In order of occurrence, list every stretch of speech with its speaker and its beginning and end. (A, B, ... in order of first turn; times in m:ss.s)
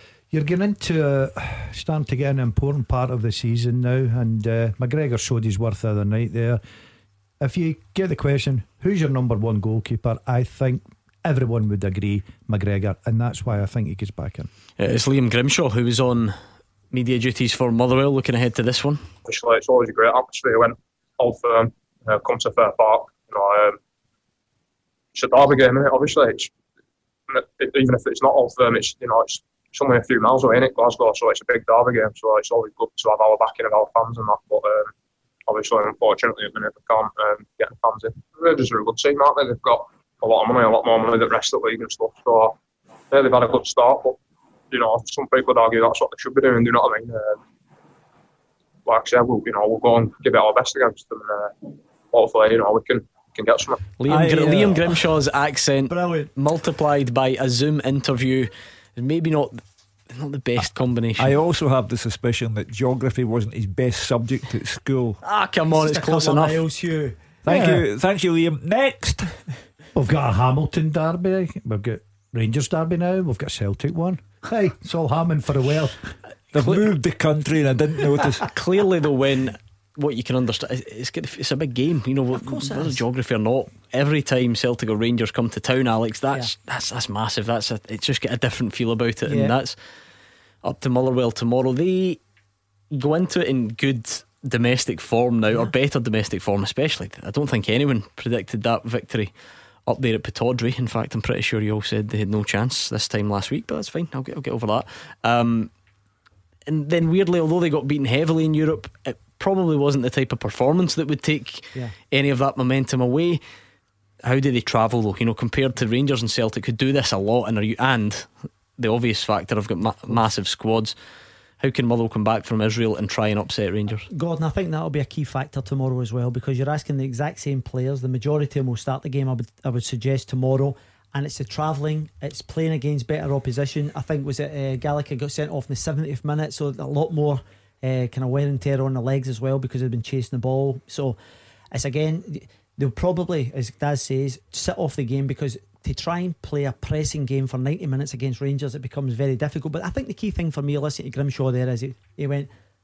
0:00.3-0:06.6 A
0:07.4-0:14.5 A
0:14.8-0:16.4 B
0:16.9-0:19.1 B
0:19.2-0:23.8 C
0:25.1-0:26.5 C
0:27.3-0:34.9 C
0:35.5-0:42.6 C
0:43.1-0:44.2 C
0:44.7-0:47.4 C
0:48.9-0:53.9 C
0:54.0-1:01.4 B
0:54.1-0:54.9 D
0:55.9-0:56.3 E
1:01.2-1:05.2 D
1:05.2-1:06.6 B
1:05.7-1:07.2 E
1:07.4-1:09.3 D
1:07.5-1:07.8 A
1:10.0-1:16.1 A
1:16.5-1:18.4 D
1:18.5-1:29.8 B
1:22.3-1:23.0 E
1:29.2-1:29.6 E
1:30.6-1:32.2 B
1:32.9-1:39.3 B
1:39.9-1:45.7 B
1:46.7-1:53.4 B
1:54.2-2:01.0 B
2:01.6-2:04.1 B
2:04.1-2:21.2 E
2:21.7-2:32.5 E